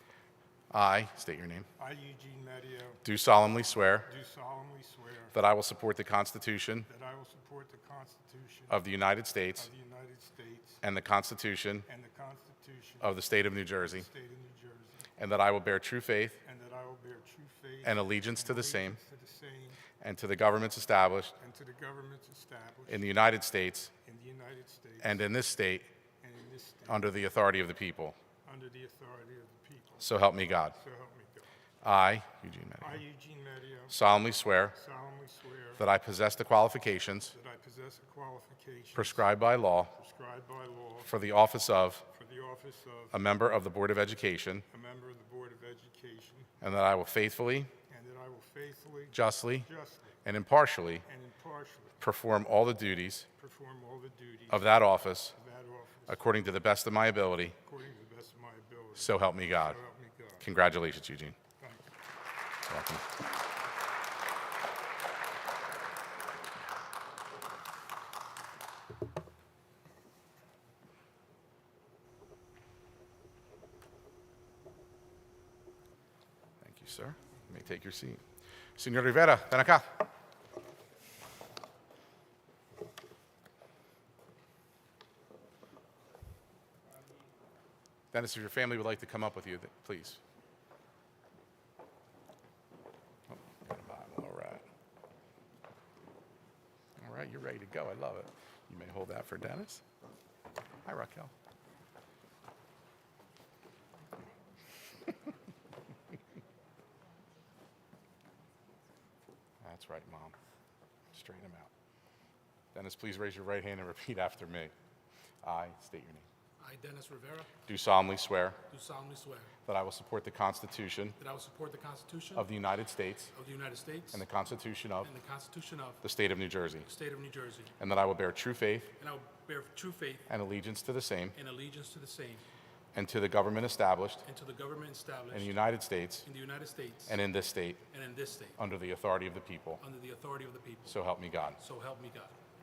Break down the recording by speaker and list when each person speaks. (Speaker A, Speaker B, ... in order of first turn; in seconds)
Speaker A: 0.7-1.7, 3.0-4.1, 5.3-6.9, 8.7-9.7, 10.8-11.9, 13.0-14.1, 15.2-16.4, 17.8-19.0, 20.0-21.4, 22.9-23.9, 25.0-25.9, 26.9-28.2, 30.0-30.8, 31.8-33.0, 33.9-34.8, 35.8-37.3, 39.0-39.9, 41.0-42.0, 43.1-44.6, 46.6-47.7, 49.1-49.7, 50.2-51.1, 52.0-53.3, 54.5-55.4, 56.1-57.6, 59.0-59.8, 60.4-61.4, 62.7-63.0, 76.6-78.2, 78.8-80.0, 88.1-90.2, 93.3-94.6, 97.0-99.8, 100.8-101.3, 109.6-110.3, 111.1-111.7, 112.7-114.7, 115.4-116.3, 117.7-118.6, 119.7-121.2, 122.3-123.3, 124.1-125.1, 126.0-126.9, 127.8-128.9, 130.3-131.3, 132.9-134.2, 135.3-136.3, 137.1-137.8, 138.6-139.8, 140.9-141.6
Speaker B: 1.8-3.0, 4.0-5.3, 6.9-8.8, 9.6-10.8, 11.9-13.2, 13.8-15.1, 16.4-19.8, 21.4-23.1, 24.0-25.3, 26.2-27.1, 28.4-30.1, 30.7-31.5, 32.8-34.0, 34.7-35.8, 37.3-39.3, 39.9-41.1, 42.1-43.2, 44.7-46.5, 47.9-50.2, 51.0-52.0, 53.4-54.8, 55.3-56.2, 57.6-60.5, 61.6-61.9
Speaker C: 116.6-117.5, 118.7-119.5, 121.2-122.5, 123.3-124.2, 125.0-126.0, 126.8-127.7, 129.0-130.3, 131.3-132.4, 134.2-135.5, 136.2-137.2, 137.9-138.6, 139.8-141.0, 141.6-142.3